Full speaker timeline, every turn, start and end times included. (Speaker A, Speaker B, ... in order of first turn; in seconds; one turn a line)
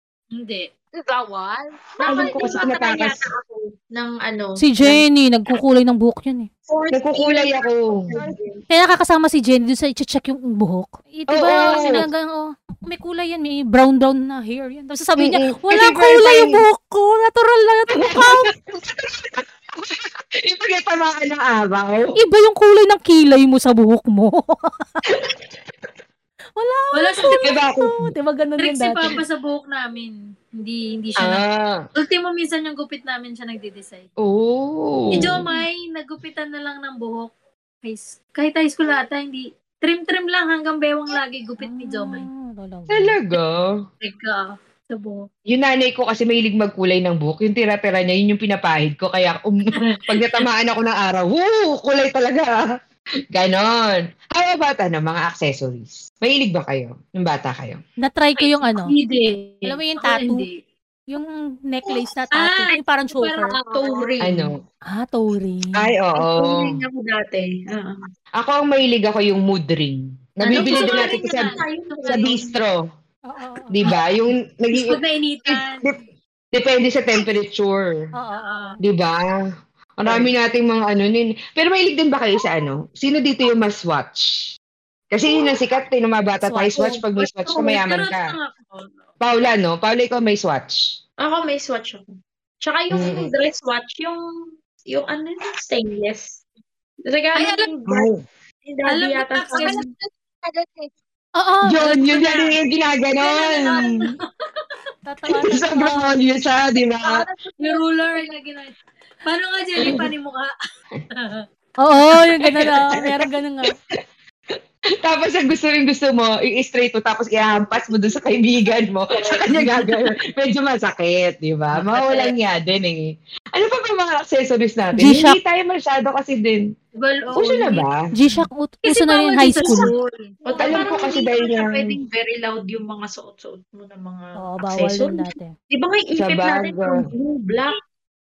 Speaker A: 0.3-0.7
Speaker B: 1.0-3.7
Speaker C: 2.0-2.7
Speaker D: 2.0-3.2
Speaker C: 3.9-5.0
Speaker E: 4.6-6.5
Speaker C: 6.7-8.6
Speaker D: 6.9-8.3
Speaker E: 8.7-18.5
Speaker D: 11.3-12.0
Speaker D: 15.2-16.6
Speaker D: 17.9-22.2
Speaker E: 22.2-25.0
Speaker E: 26.6-29.2
Speaker A: 26.9-27.5
Speaker D: 27.4-28.1
Speaker A: 28.6-31.4
Speaker D: 31.2-31.8
Speaker A: 31.9-34.1
Speaker D: 34.2-35.4
Speaker A: 35.1-37.3
Speaker A: 37.8-42.2
Speaker E: 41.6-43.1
Speaker D: 42.9-43.7
Speaker A: 44.0-45.2
Speaker D: 45.5-52.6
Speaker A: 50.0-50.4
Speaker D: 53.3-57.8
Speaker E: 58.0-58.9
Speaker A: 58.4-60.6
Speaker E: 59.6-60.5
Speaker E: 61.1-63.6
Speaker A: 62.3-63.5
Speaker B: 63.4-64.2
Speaker C: 63.7-64.5
Speaker D: 64.2-64.6
Speaker E: 64.9-65.8
Speaker D: 65.8-66.7
Speaker C: 66.1-68.0
Speaker D: 68.4-71.5
Speaker A: 70.5-72.3
Speaker C: 70.5-72.5
Speaker D: 72.1-72.8
Speaker E: 73.3-73.8
Speaker D: 73.7-76.0
Speaker A: 74.7-75.9
Speaker D: 76.5-78.1
Speaker E: 78.1-78.8
Speaker A: 78.4-78.8
Speaker D: 78.8-79.4
Speaker D: 80.0-84.5
Speaker C: 80.1-80.3
Speaker D: 85.1-88.3
Speaker E: 86.4-87.0
Speaker A: 87.5-89.1
Speaker D: 89.2-90.9
Speaker C: 91.2-92.1
Speaker C: 92.6-96.4
Speaker D: 92.9-93.3
Speaker C: 97.0-98.1
Speaker A: 97.3-97.7
Speaker D: 97.9-98.2
Speaker C: 98.6-99.9
Speaker A: 98.9-99.8
Speaker B: 99.5-100.9
Speaker E: 101.4-102.1
Speaker D: 101.7-104.1
Speaker A: 101.9-102.6
Speaker A: 103.2-104.2
Speaker E: 105.0-106.2
Speaker D: 105.4-107.2
Speaker B: 107.0-108.4
Speaker A: 107.6-110.5
Speaker A: 111.1-111.4
Speaker E: 111.8-113.7
Speaker D: 112.3-113.3
Speaker D: 115.0-126.7
Speaker E: 125.0-125.4
Speaker A: 127.0-130.3
Speaker D: 127.4-128.0
Speaker E: 128.1-129.9
Speaker C: 129.5-129.9
Speaker C: 130.4-137.8
Speaker D: 130.6-132.0
Speaker E: 134.4-135.5
Speaker D: 136.2-137.0